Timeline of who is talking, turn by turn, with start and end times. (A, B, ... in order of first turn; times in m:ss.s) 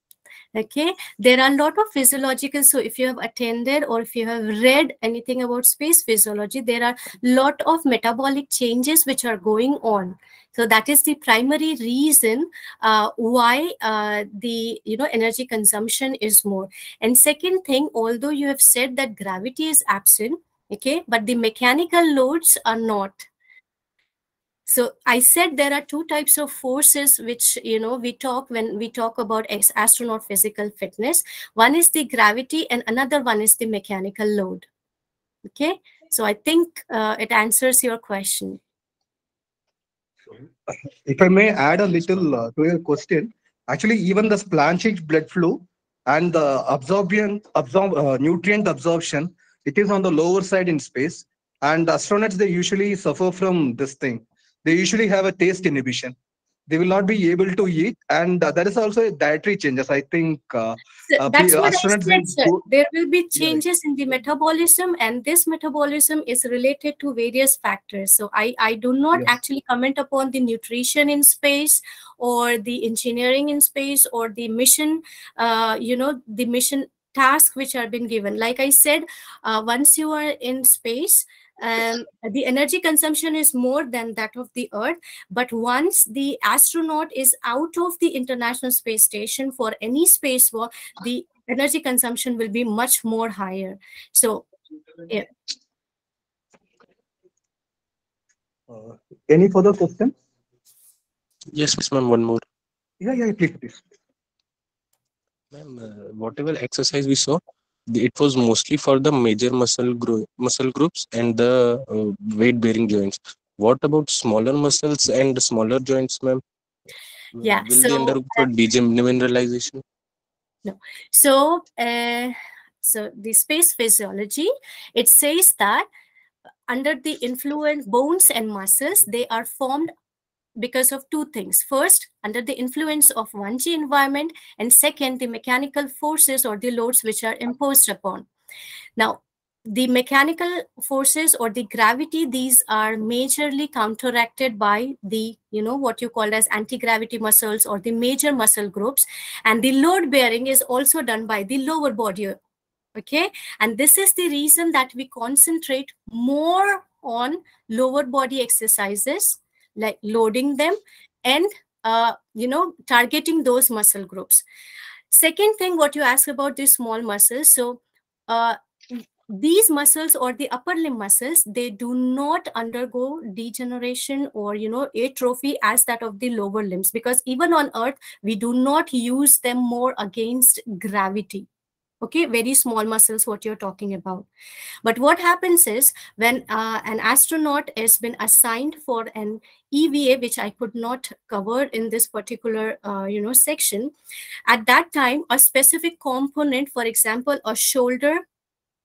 0:00.5-0:23.3 A
0:24.7-0:34.7 A
0:35.5-0:38.6 A
0:40.7-0:56.2 B
0:56.7-1:02.6 B
1:01.1-1:34.5 A
1:38.7-1:40.1 B
1:41.5-1:42.4 C
1:43.0-1:43.8 B
1:45.5-1:47.4 C
1:47.9-1:56.4 C
1:57.3-1:59.8 C
1:57.4-1:58.4 A
2:00.6-2:05.8 A
2:06.7-2:09.9 A
2:10.6-2:18.2 A
2:19.0-2:32.4 A
2:33.0-2:44.4 A
2:45.1-3:01.5 A
3:02.0-3:04.3 A
3:04.8-3:13.9 A
3:14.5-3:18.2 A